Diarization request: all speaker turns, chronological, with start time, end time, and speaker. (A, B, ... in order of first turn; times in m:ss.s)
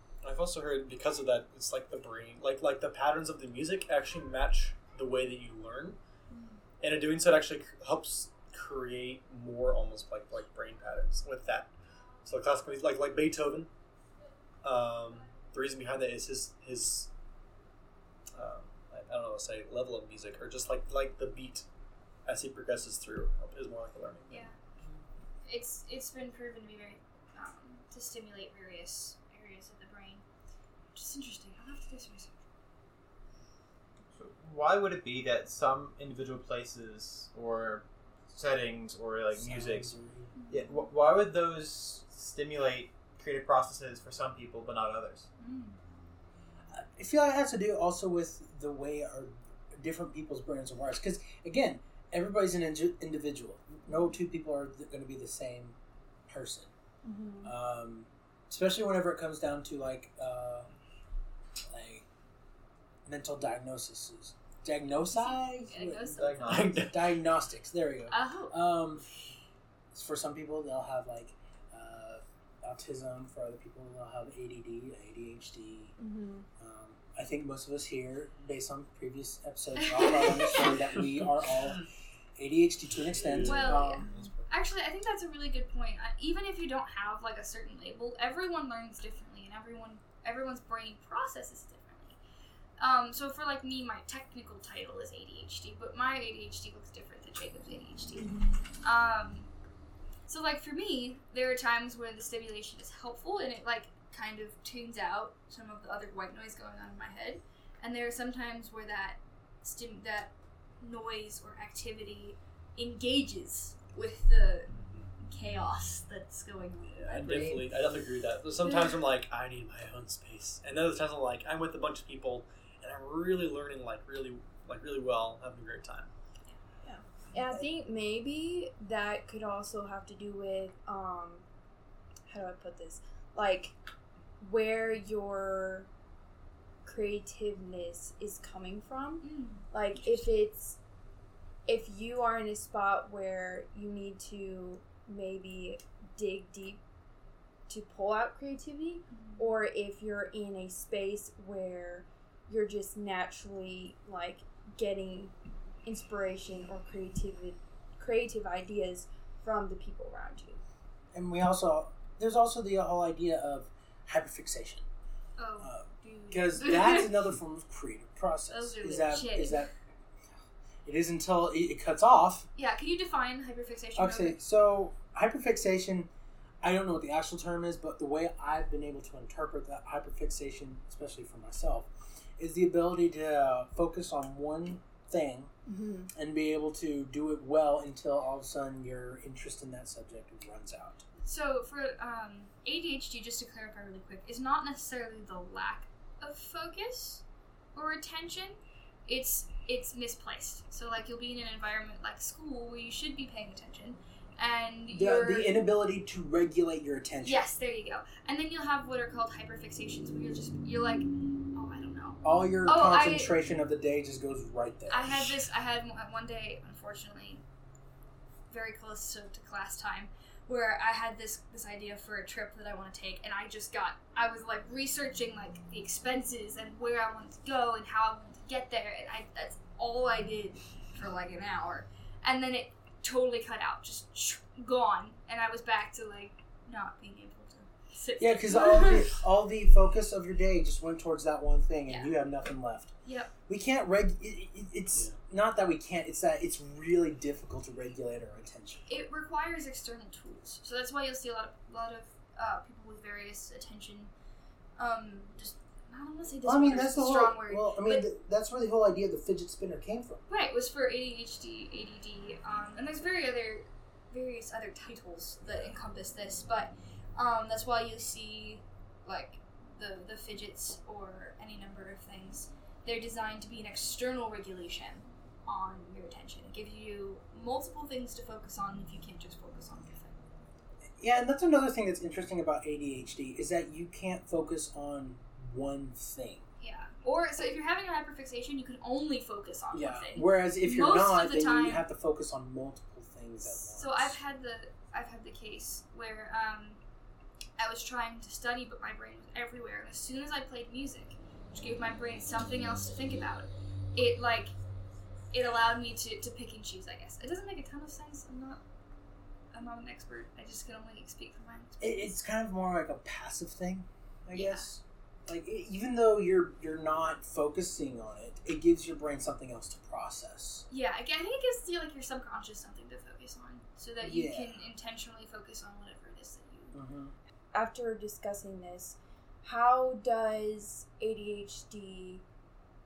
0:00.2-0:06.0 A
0:06.3-0:06.6 B
0:06.8-0:11.7 A
0:12.2-0:13.7 A
0:14.6-0:17.1 A
0:18.3-0:21.7 A
0:22.2-0:25.0 A
0:24.3-0:24.5 B
0:25.4-0:30.2 B
0:30.9-0:32.3 B
0:34.1-0:39.9 C
0:39.3-0:40.3 D
0:40.4-0:40.9 B
0:40.5-0:45.3 C
0:45.4-0:45.8 B
0:46.7-0:55.8 D
0:56.3-0:56.7 D
0:57.0-0:57.5 E
0:57.4-1:00.7 D
1:01.7-1:02.0 D
1:03.0-1:09.0 D
1:05.0-1:06.9 B
1:06.1-1:06.9 C
1:06.5-1:06.9 A
1:08.1-1:08.6 B
1:09.9-1:16.0 D
1:16.0-1:16.5 E
1:16.6-1:21.8 D
1:19.8-1:20.8 B
1:21.6-1:21.8 A
1:22.4-1:24.1 D
1:22.9-1:24.5 A
1:23.4-1:32.2 B
1:32.8-1:39.5 B
1:38.2-1:38.5 E
1:40.3-1:57.7 B
1:54.7-1:55.1 A
1:56.8-2:06.1 A
1:58.6-1:59.0 B
2:06.8-2:11.4 E
2:12.3-2:13.7 E
2:14.4-2:15.9 E
2:16.8-2:20.8 E
2:19.2-2:20.2 B
2:21.6-2:26.8 E
2:27.7-2:35.3 E
2:29.1-2:29.5 B
2:35.8-2:40.6 E
2:41.1-2:44.8 D
2:45.4-2:47.2 B
2:45.6-2:49.7 D
2:48.5-2:49.7 B
2:50.8-2:52.5 D
2:52.6-2:54.4 B
2:54.0-2:56.1 D
2:56.6-3:05.5 D
3:05.7-3:06.1 E
3:06.1-3:11.0 D
3:11.2-3:17.2 B
3:17.7-3:25.6 B
3:24.9-3:27.5 D
3:27.2-3:33.3 B
3:32.2-3:35.4 D
3:34.9-3:37.4 B
3:38.5-3:59.2 B
3:58.2-4:02.9 D
4:01.9-4:02.1 B
4:03.0-4:03.3 B
4:03.5-4:08.9 D
4:08.9-4:14.1 B
4:14.8-4:18.1 B
4:16.4-4:20.2 D
4:20.3-4:40.1 B
4:41.0-4:46.4 D
4:46.6-4:51.8 B
4:49.7-4:54.2 D
4:53.4-4:56.8 B
4:57.6-5:04.5 B
5:05.3-5:08.6 B
5:09.5-5:12.1 B
5:11.8-5:20.6 D
5:14.3-5:14.7 B
5:20.7-5:26.7 B
5:24.0-5:24.6 D
5:26.7-5:27.1 D
5:27.5-5:32.2 E